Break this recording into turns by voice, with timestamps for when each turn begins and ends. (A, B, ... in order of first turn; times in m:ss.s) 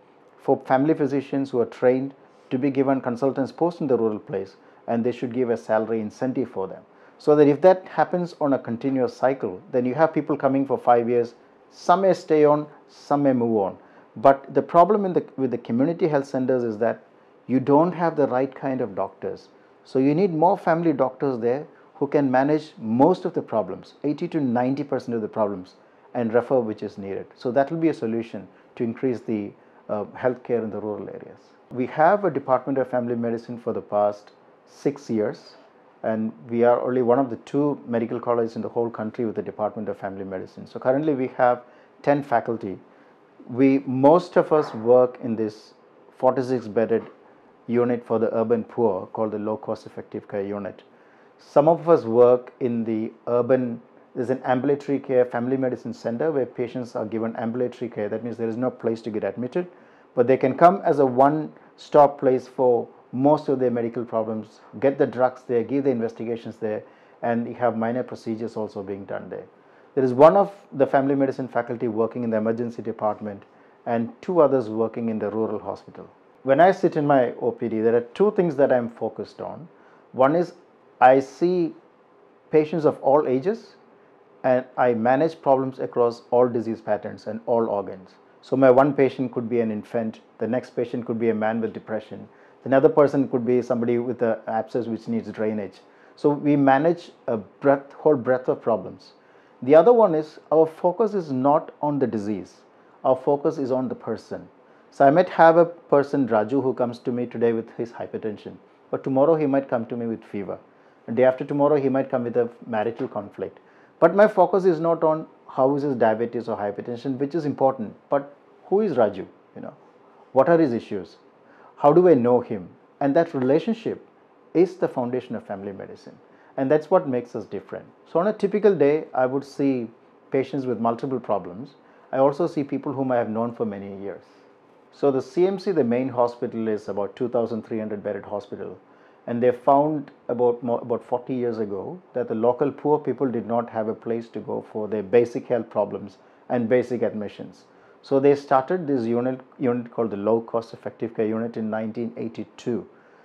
0:00.4-0:42.8 A
0:43.5-0:47.1 A
0:47.7-0:50.8 A
0:51.4-1:21.8 A
1:22.5-1:23.8 A
1:24.4-1:59.8 A
2:00.3-2:01.2 A
2:01.8-2:14.3 A
2:14.9-2:32.9 A